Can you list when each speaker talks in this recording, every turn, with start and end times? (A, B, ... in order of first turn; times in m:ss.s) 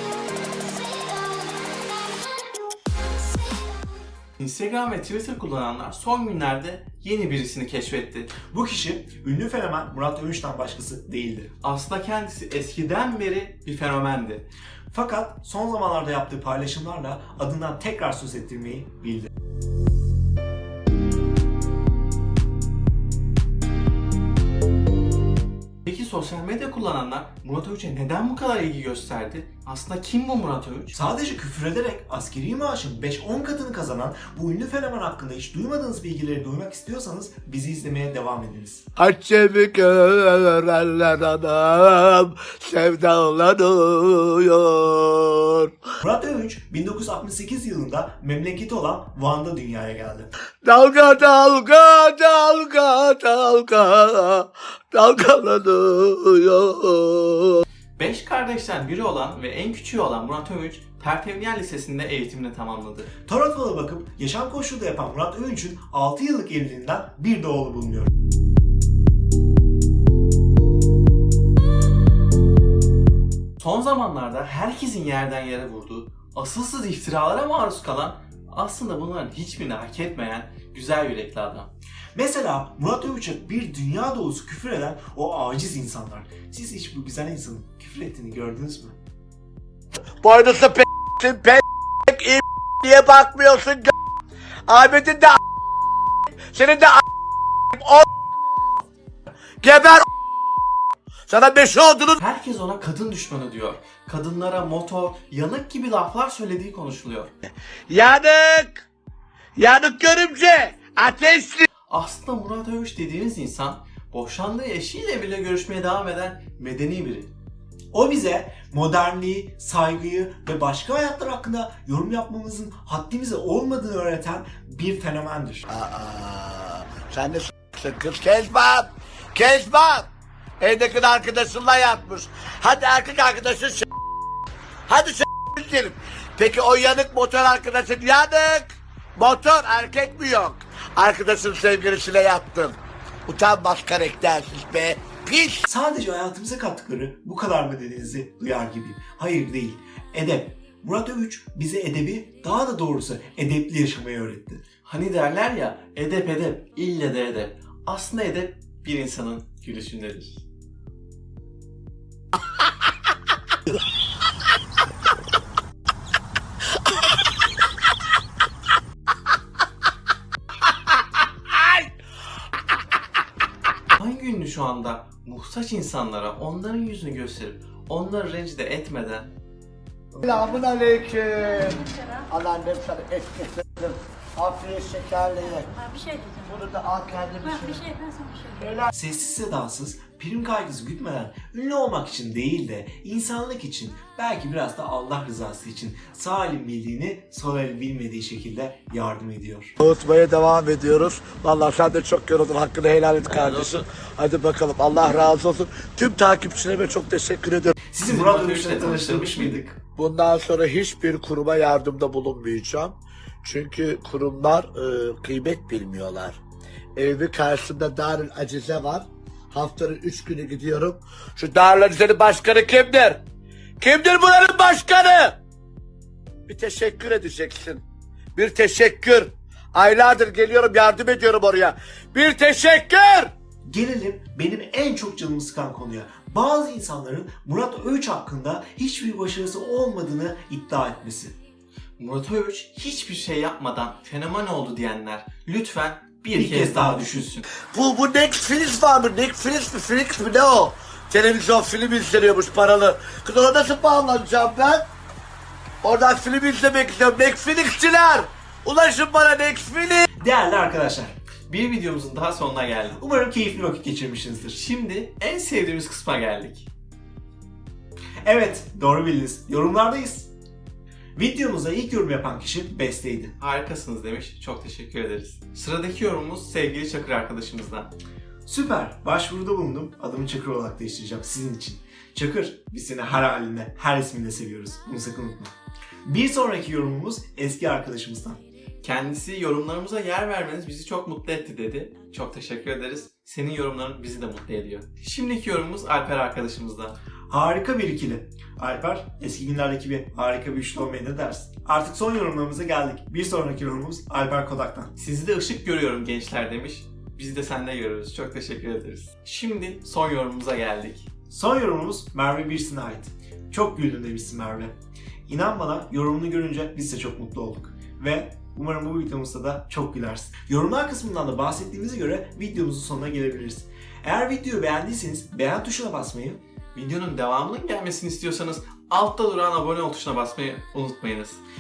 0:04.4-0:08.3 A
0:08.5-0:11.5 B
0:11.6-0:14.4 A
0:14.9-0:19.3 B
0:25.8-0:30.9 A
0:30.9-0:38.8 B
0:39.0-0:45.7 C
0:46.0-0:50.3 B
0:50.6-0:57.6 C
0:58.0-1:03.1 A
1:03.2-1:08.1 B
1:13.6-1:21.7 A
1:22.1-1:29.0 B
1:30.2-1:33.9 C
1:34.7-1:35.4 C
1:36.5-1:37.0 C
1:37.7-1:38.0 C
1:39.6-1:40.0 C
1:41.3-1:42.2 C
1:42.2-1:47.3 A
1:47.9-1:48.8 C
1:49.6-1:51.6 C
1:51.9-1:57.3 A
1:57.9-2:05.6 B
2:05.7-2:13.9 C
2:14.9-2:25.6 C
2:25.6-2:34.6 B
2:34.8-2:40.4 A
2:54.0-2:59.3 A
3:00.1-3:05.8 C
3:05.8-3:06.5 D
3:06.4-3:07.8 C
3:07.4-3:08.6 D
3:08.9-3:19.7 B
3:19.8-3:27.7 C
3:23.3-3:23.8 A
3:27.9-3:29.8 B
3:28.0-3:29.6 A
3:30.0-3:36.4 C
3:36.9-3:43.2 C
3:43.8-3:45.4 C
3:46.5-3:47.8 C
3:48.3-3:53.3 C
3:53.7-4:01.3 B
4:02.0-4:07.5 A
4:06.3-4:07.3 B
4:07.7-4:14.9 C
4:15.8-4:20.1 C
4:20.2-4:21.1 B
4:21.5-4:23.0 A
4:23.0-4:24.6 B
4:24.5-4:26.7 A
4:28.2-4:30.3 B
4:31.2-4:33.3 B
4:33.4-4:37.9 A
4:38.4-4:45.5 B
4:46.0-4:48.4 B
4:48.8-4:57.0 A
4:57.3-5:04.9 B
5:05.0-5:11.1 A
5:11.3-5:14.7 B
5:15.3-5:26.4 B
5:26.7-5:31.4 A